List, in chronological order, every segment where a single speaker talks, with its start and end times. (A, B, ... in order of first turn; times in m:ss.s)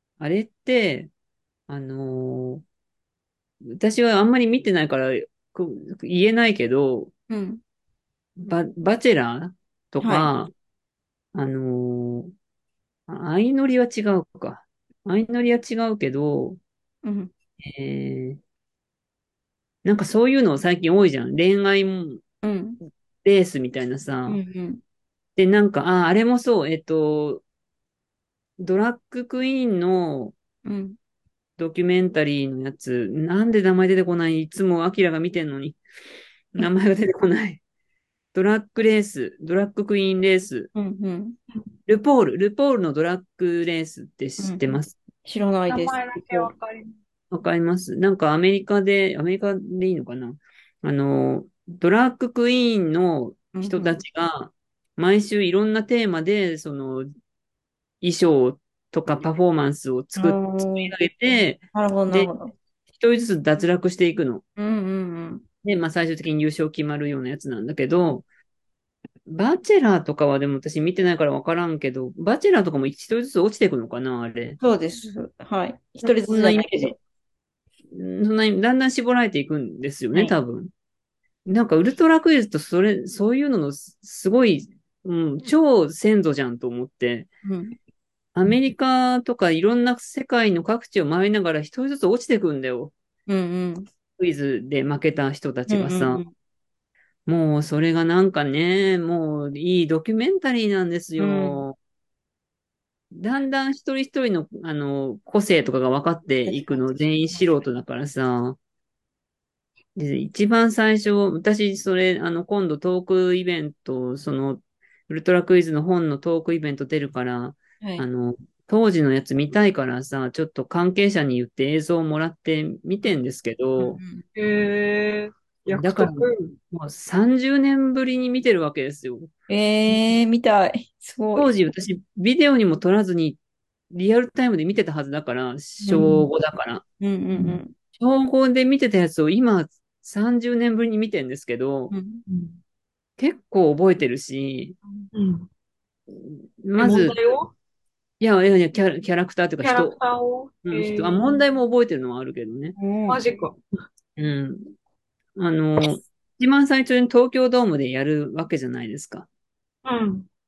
0:00.2-0:01.1 A
0:01.7-0:02.6 A
0:03.6-0:07.1 A
0:07.3-0:07.6 B
0:08.4-0:10.5 A
0:10.0-0:10.3 B
0:11.3-0:12.3 A
0:13.1-0:16.6 A
0:17.0-0:17.3 B
0:17.6-0:18.4 A
0:19.8-0:22.2 A
0:22.4-0:22.8 B
0:23.2-0:24.4 A
0:24.3-0:24.8 B
0:25.4-0:27.4 A
0:28.6-0:30.3 A
0:30.6-0:31.0 B
0:31.6-0:35.8 A
0:36.5-0:37.6 A
0:38.3-0:40.7 A
0:40.7-0:41.4 B
0:41.9-0:45.0 A
0:44.4-0:46.5 B
0:45.7-0:47.0 C
0:47.3-0:57.1 A
0:53.5-0:54.0 B
0:58.0-1:02.3 A
1:00.2-1:00.9 B
1:01.7-1:02.5 B
1:02.9-1:04.4 A
1:04.6-1:05.4 B
1:05.6-1:08.2 A
1:09.3-1:14.6 A
1:14.6-1:17.0 B
1:16.0-1:17.0 A
1:17.9-1:20.7 A
1:21.4-1:27.3 A
1:27.4-1:27.8 B
1:28.3-1:32.9 A
1:33.3-1:33.9 B
1:34.2-1:36.2 A
1:35.7-1:36.3 B
1:37.2-1:41.7 A
1:41.2-1:41.6 B
1:43.1-1:48.6 A
1:46.4-1:46.7 B
1:50.0-2:04.0 A
2:03.8-2:04.2 B
2:04.4-2:06.3 C
2:05.7-2:09.3 A
2:09.5-2:11.5 B
2:11.4-2:13.4 A
2:13.9-2:16.8 A
2:15.8-2:16.3 B
2:17.0-2:17.7 B
2:17.3-2:17.6 C
2:18.0-2:21.9 A
2:21.9-2:22.2 B
2:22.3-2:22.6 C
2:23.2-2:24.8 A
2:25.1-2:25.5 C
2:26.1-2:27.2 A
2:26.8-2:27.5 C
2:28.2-2:30.0 A
2:29.6-2:31.4 C
2:30.6-2:32.8 A
2:32.8-2:33.2 B
2:33.1-2:33.6 C
2:34.2-2:34.7 A
2:35.4-2:39.3 A
2:39.8-2:40.3 C